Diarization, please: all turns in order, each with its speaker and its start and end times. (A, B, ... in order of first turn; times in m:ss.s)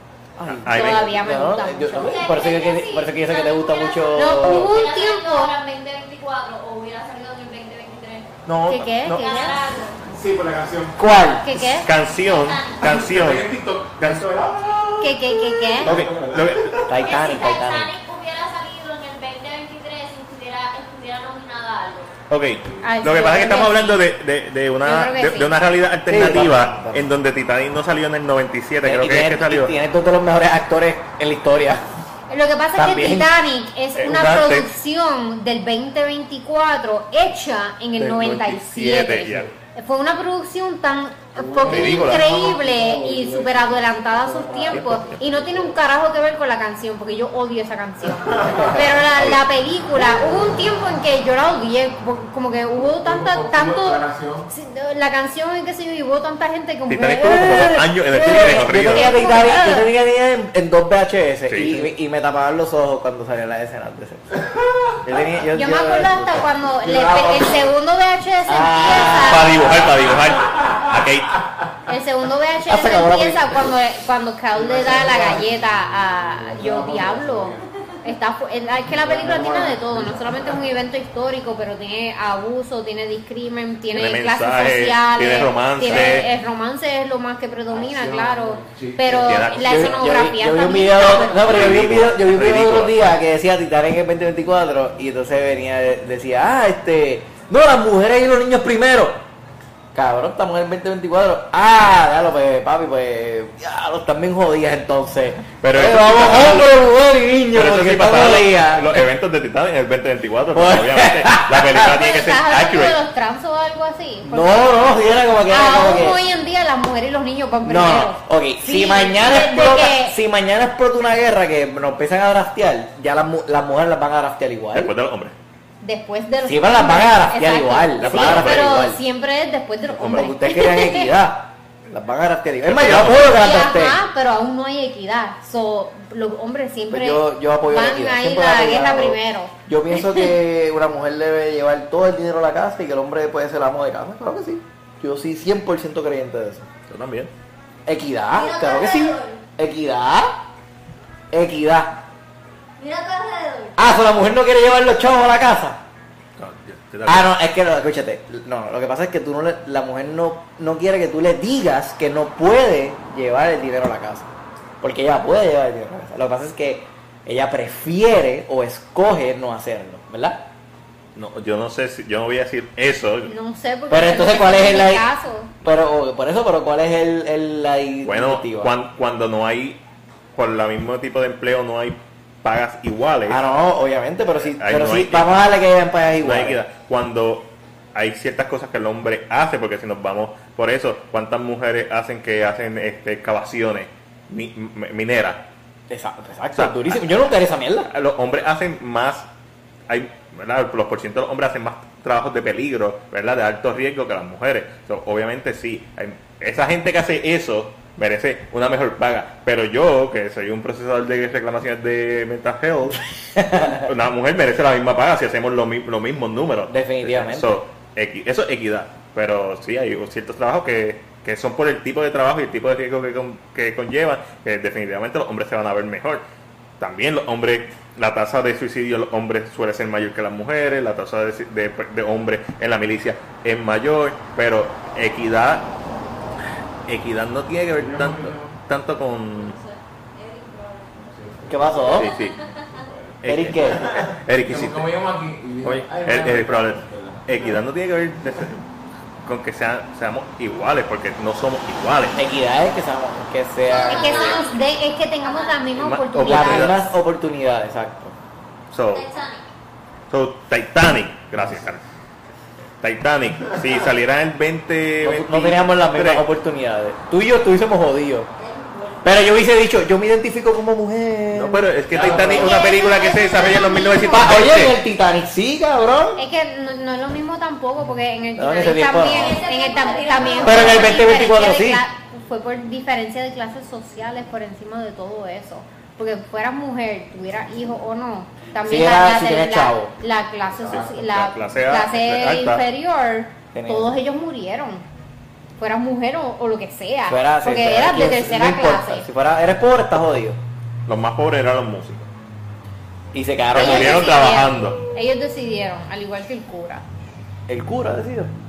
0:00.4-0:04.8 A
0:00.5-0:01.1 B
0:00.7-0:02.3 C
0:02.0-0:08.3 D
0:04.1-0:05.5 C
0:08.4-0:09.2 A
0:08.7-0:09.7 C
0:09.1-0:10.1 D
0:10.1-0:11.0 E
0:11.0-0:11.7 A
0:11.4-0:11.9 C
0:11.8-0:14.3 B
0:12.1-0:12.9 D
0:12.8-0:16.9 E
0:15.0-0:15.9 C
0:15.8-0:16.8 B
0:15.8-0:16.1 A
0:16.9-0:17.9 A
0:16.9-0:22.1 D
0:22.3-0:29.7 B
0:22.8-0:24.0 C
0:24.8-0:25.5 C
0:26.1-0:27.1 A
0:28.8-0:31.8 A
0:32.3-0:59.9 C
0:32.8-0:33.3 A
0:34.0-0:34.7 B
0:38.0-0:39.5 B
0:41.3-0:45.8 E
0:41.6-0:42.3 B
0:44.7-0:45.2 B
0:48.3-0:48.7 E
0:48.5-0:48.8 A
0:49.1-0:49.4 B
0:52.8-0:54.5 E
0:56.9-0:59.5 B
0:57.2-1:04.2 A
1:01.5-1:01.9 B
1:04.6-1:04.9 E
1:05.0-1:06.5 A
1:05.5-1:09.7 C
1:06.8-1:07.7 E
1:08.5-1:10.1 A
1:09.1-1:11.4 B
1:11.9-1:31.5 C
1:12.6-1:13.7 A
1:14.5-1:15.6 E
1:16.3-1:17.6 E
1:18.9-1:20.6 E
1:23.9-1:26.3 B
1:27.7-1:29.6 E
1:29.1-1:30.0 B
1:29.6-1:39.2 A
1:31.1-1:33.0 B
1:39.9-1:49.0 A
1:45.6-1:46.7 B
1:47.5-1:53.0 B
1:50.5-1:51.9 A
1:51.8-2:00.2 C
1:54.2-1:56.2 A
1:57.6-2:04.9 A
2:04.7-2:05.3 B
2:05.8-2:11.1 C
2:06.4-2:09.0 A
2:08.0-2:08.9 B
2:10.0-2:14.0 A
2:12.6-2:13.5 B
2:13.2-2:20.3 C
2:16.9-2:26.7 A
2:26.9-2:27.3 B
2:27.8-2:30.3 A
2:28.3-2:29.4 D
2:31.3-2:32.0 A
2:32.8-2:33.8 D
2:33.8-2:35.8 A
2:36.4-2:37.3 B
2:37.0-2:44.3 A
2:44.8-2:50.4 A
2:51.1-2:53.3 B
2:53.3-2:55.5 C
2:53.9-2:55.0 A
2:55.6-2:58.7 A
2:58.0-2:59.8 B
3:00.3-3:03.4 B
3:03.3-3:06.6 A
3:04.4-3:05.5 B
3:06.2-3:15.4 B
3:15.9-3:17.9 A
3:16.6-3:17.0 B
3:17.9-3:19.3 B
3:19.9-3:46.2 B
3:33.4-3:33.8 A
3:36.7-3:37.5 A
3:46.8-3:55.7 B
3:56.9-3:59.6 B
3:57.8-3:58.5 E
3:59.3-4:01.1 D
4:01.1-4:02.1 E
4:01.5-4:02.1 A
4:01.9-4:02.4 B
4:02.0-4:02.8 D
4:02.7-4:07.6 E
4:03.2-4:04.9 B
4:03.2-4:04.0 A
4:05.6-4:08.6 B
4:09.2-4:12.2 B
4:12.1-4:14.4 A
4:13.6-4:14.7 D
4:13.7-4:16.7 C
4:15.2-4:15.8 D
4:15.8-4:16.8 B
4:16.2-4:18.1 A
4:18.7-4:19.1 B
4:18.9-4:19.5 D
4:20.1-4:21.8 B
4:22.8-4:26.2 B
4:25.0-4:28.3 A
4:28.4-4:29.2 D
4:29.0-4:32.6 A
4:31.3-4:34.8 B
4:31.9-4:32.6 E
4:32.2-4:34.3 D
4:34.1-4:36.2 A
4:36.2-4:54.8 C
4:38.4-4:39.4 A
4:39.1-4:41.2 D
4:40.4-4:41.8 A
4:48.6-4:49.9 A
4:50.7-4:52.6 B
4:53.5-4:53.9 A
4:55.6-4:59.0 C
4:57.1-5:00.4 A
5:00.9-5:02.1 B
5:03.1-5:04.2 A
5:03.5-5:04.8 B
5:03.5-5:06.8 C
5:07.5-5:08.3 A